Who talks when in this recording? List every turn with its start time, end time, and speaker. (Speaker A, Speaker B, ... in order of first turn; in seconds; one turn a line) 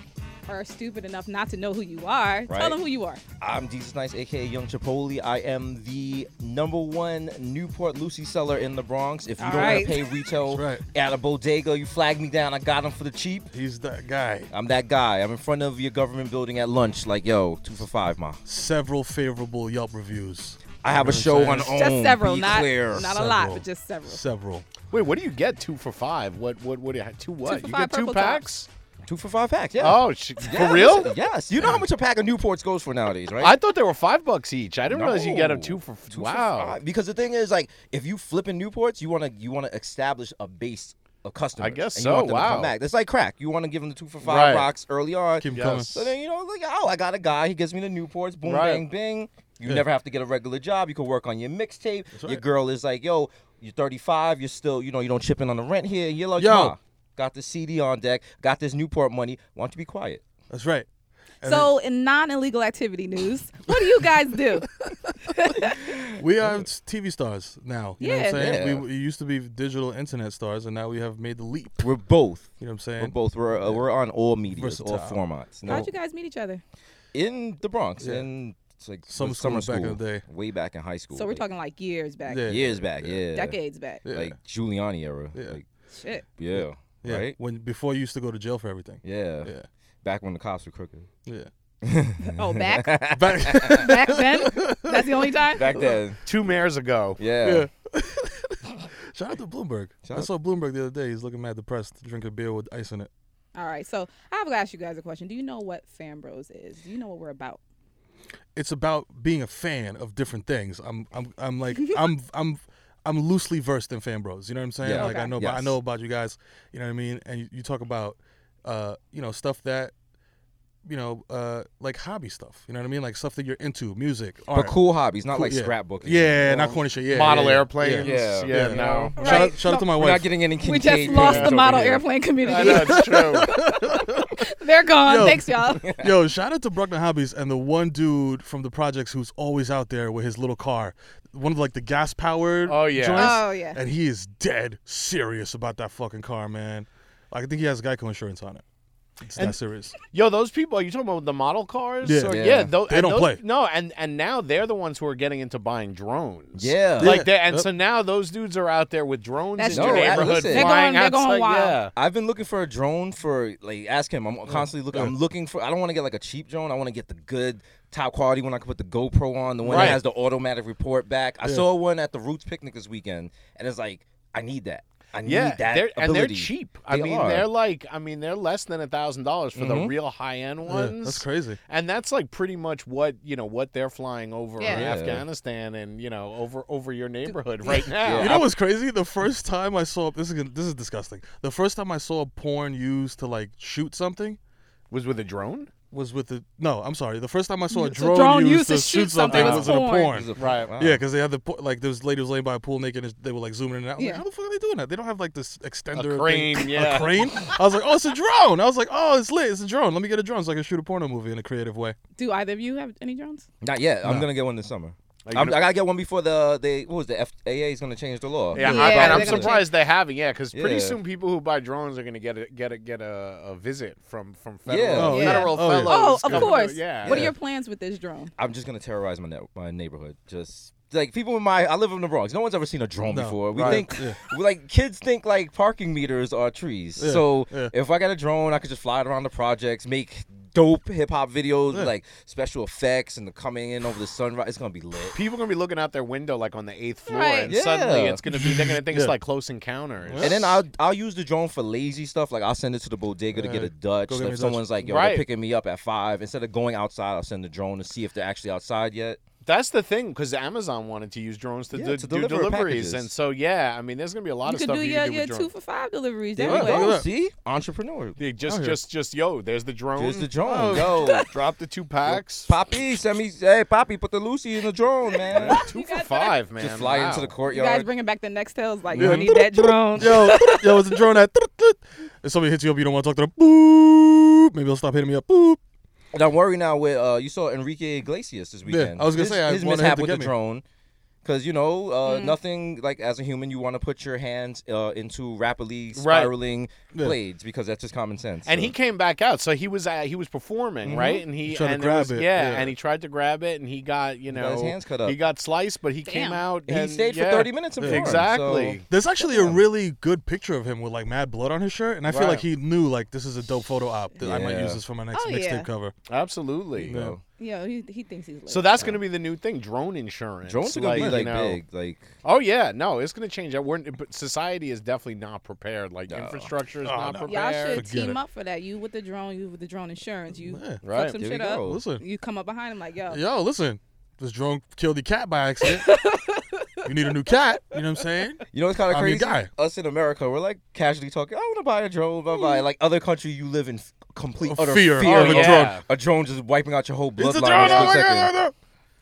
Speaker A: 0.5-3.2
Speaker B: 2.5-2.8
Speaker B: 3.4-13.5
Speaker A: 9.4-10.0
Speaker C: 9.5-10.8
Speaker C: 13.5-14.5
Speaker B: 14.5-18.4
Speaker C: 18.5-21.8
Speaker B: 20.8-23.1
Speaker A: 21.7-24.2
Speaker C: 22.9-24.7
Speaker D: 24.9-28.7
Speaker A: 27.4-28.4
Speaker B: 29.1-33.5
Speaker D: 29.8-31.2
Speaker D: 33.4-36.8
Speaker B: 34.9-60.2
Speaker D: 41.6-42.7
Speaker D: 44.2-44.7
Speaker C: 45.4-46.0
Speaker D: 45.5-45.9
Speaker D: 48.4-48.8
Speaker C: 52.2-52.4
Speaker C: 56.4-56.7
Speaker C: 60.5-60.9
Speaker C: 61.4-61.7
Speaker A: 61.5-64.7
Speaker C: 64.8-65.2
Speaker A: 65.3-65.8
Speaker C: 66.2-71.9
Speaker A: 68.0-68.5
Speaker B: 68.3-68.9
Speaker B: 71.8-75.9
Speaker C: 72.6-73.8
Speaker C: 74.5-75.9
Speaker A: 75.7-76.6
Speaker B: 77.1-81.4
Speaker C: 78.0-78.3
Speaker C: 79.1-80.2
Speaker A: 81.1-82.5
Speaker C: 82.3-83.2
Speaker B: 82.5-83.6
Speaker A: 83.3-84.0
Speaker C: 84.0-84.4
Speaker B: 84.1-85.7
Speaker A: 86.0-86.2
Speaker B: 86.4-87.4
Speaker C: 87.0-89.7
Speaker B: 89.0-89.5
Speaker B: 90.0-91.1
Speaker B: 91.8-93.8
Speaker A: 92.2-93.0
Speaker C: 93.1-95.3
Speaker A: 93.8-95.7
Speaker B: 95.6-96.2
Speaker D: 96.3-97.2
Speaker B: 97.2-97.7
Speaker C: 97.4-103.1
Speaker B: 100.0-100.3
Speaker A: 103.6-107.6
Speaker C: 108.5-119.9
Speaker B: 114.8-115.8
Speaker A: 114.9-115.3
Speaker C: 120.8-124.8
Speaker B: 124.5-126.8
Speaker C: 125.3-130.3
Speaker D: 127.1-129.1
Speaker B: 128.0-132.1
Speaker A: 129.2-129.9
Speaker A: 130.6-133.7
Speaker D: 131.1-131.5
Speaker D: 132.4-133.5
Speaker C: 132.5-134.4
Speaker A: 134.4-135.8
Speaker C: 135.1-148.6
Speaker B: 135.8-136.1
Speaker D: 142.7-143.4
Speaker A: 143.2-143.8
Speaker C: 149.2-149.9
Speaker D: 150.1-161.9
Speaker C: 152.0-153.4
Speaker B: 152.3-152.7
Speaker B: 156.6-157.2
Speaker C: 157.0-157.7
Speaker A: 159.6-161.8
Speaker B: 159.7-160.8
Speaker B: 162.0-177.5
Speaker C: 164.5-165.1
Speaker D: 169.7-170.0
Speaker C: 169.7-170.0
Speaker D: 175.2-188.5
Speaker B: 179.6-179.9
Speaker C: 180.7-181.6
Speaker A: 184.6-184.8
Speaker B: 184.7-185.2
Speaker B: 188.0-188.4
Speaker C: 188.2-194.4
Speaker D: 194.9-195.7
Speaker C: 195.9-200.3
Speaker A: 197.7-200.2
Speaker D: 199.3-199.7
Speaker B: 200.1-201.0
Speaker D: 200.4-200.7
Speaker C: 200.8-212.0
Speaker A: 204.0-204.2
Speaker D: 205.9-207.4
Speaker A: 212.2-213.5
Speaker B: 213.6-219.5
Speaker D: 215.3-215.6
Speaker D: 218.5-227.3
Speaker A: 218.6-219.7
Speaker B: 220.5-221.0
Speaker B: 224.7-225.3
Speaker C: 224.9-226.5
Speaker A: 225.1-228.3
Speaker B: 228.4-245.2
Speaker C: 233.1-234.2
Speaker D: 233.6-233.8
Speaker C: 237.0-237.7
Speaker D: 245.1-250.5
Speaker A: 247.1-247.6
Speaker B: 247.5-248.2
Speaker C: 248.3-249.1
Speaker C: 250.1-250.5
Speaker B: 250.2-259.2
Speaker C: 253.3-254.6
Speaker D: 254.8-255.3
Speaker D: 259.4-265.5
Speaker B: 261.7-263.1
Speaker A: 264.5-266.9
Speaker B: 266.4-268.2
Speaker C: 266.4-267.1
Speaker D: 268.2-270.3
Speaker C: 268.5-268.8
Speaker B: 270.0-271.3
Speaker C: 270.4-271.0
Speaker A: 271.0-271.2
Speaker D: 271.3-272.6
Speaker B: 272.4-275.6
Speaker D: 275.3-277.3
Speaker A: 275.5-276.4
Speaker B: 276.6-277.9
Speaker A: 277.5-280.8
Speaker C: 278.9-285.6
Speaker B: 279.0-279.2
Speaker B: 286.1-290.6
Speaker C: 288.7-290.3
Speaker B: 291.2-298.7
Speaker A: 292.1-292.4
Speaker D: 295.9-296.3
Speaker D: 298.5-308.8
Speaker B: 300.9-301.2
Speaker C: 301.4-302.7
Speaker B: 304.3-305.2
Speaker A: 306.1-306.4
Speaker B: 306.7-308.8
Speaker C: 307.8-308.4
Speaker C: 308.9-315.9
Speaker D: 312.1-312.5
Speaker B: 314.2-314.8
Speaker A: 315.1-315.7
Speaker D: 316.1-317.0
Speaker B: 316.8-317.2
Speaker C: 316.9-317.2
Speaker A: 317.4-318.9
Speaker D: 318.5-321.6
Speaker B: 320.4-322.1
Speaker C: 320.9-321.3
Speaker D: 322.2-327.8
Speaker B: 326.1-326.5
Speaker C: 326.8-328.2
Speaker A: 327.3-333.2
Speaker C: 330.4-330.8
Speaker D: 330.8-331.2
Speaker B: 331.2-331.8
Speaker C: 331.6-332.0
Speaker C: 333.1-336.0
Speaker A: 335.7-336.9
Speaker C: 336.9-339.5
Speaker B: 338.5-348.3
Speaker A: 342.3-342.6
Speaker C: 344.5-345.8
Speaker D: 345.0-345.8
Speaker C: 347.2-348.5